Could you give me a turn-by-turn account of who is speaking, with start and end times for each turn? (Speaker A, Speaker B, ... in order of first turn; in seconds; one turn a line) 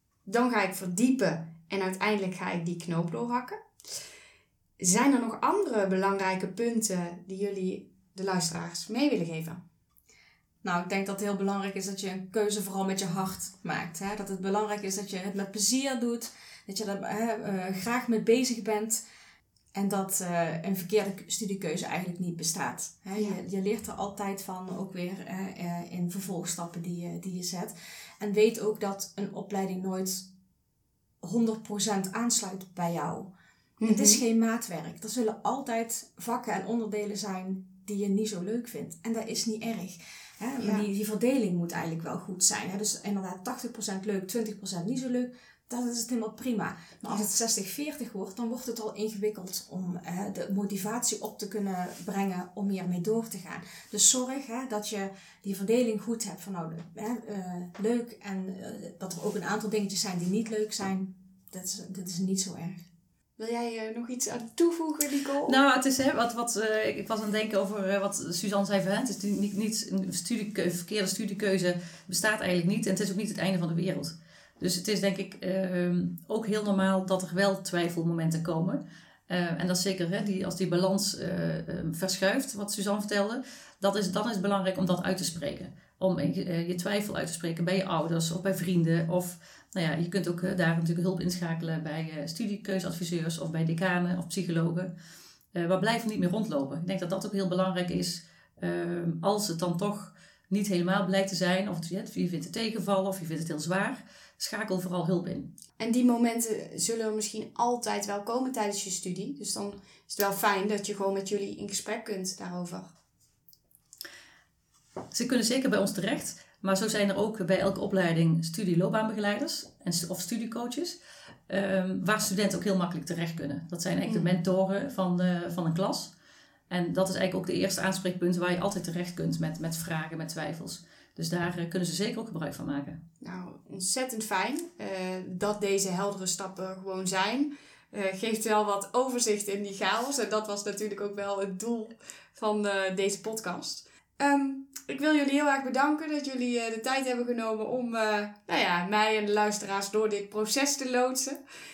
Speaker A: 0.2-3.6
Speaker A: 4.8-9.6
Speaker B: 10.6-19.0
Speaker B: 19.7-30.3
Speaker B: 31.2-33.3
Speaker A: 33.8-34.2
Speaker B: 33.9-62.8
Speaker A: 40.6-40.9
Speaker A: 63.4-65.6
Speaker C: 65.4-94.9
Speaker C: 95.5-105.5
Speaker A: 105.8-112.9
Speaker C: 115.1-121.0
Speaker C: 121.5-126.1
Speaker A: 124.0-124.3
Speaker C: 126.7-133.0
Speaker A: 133.2-151.4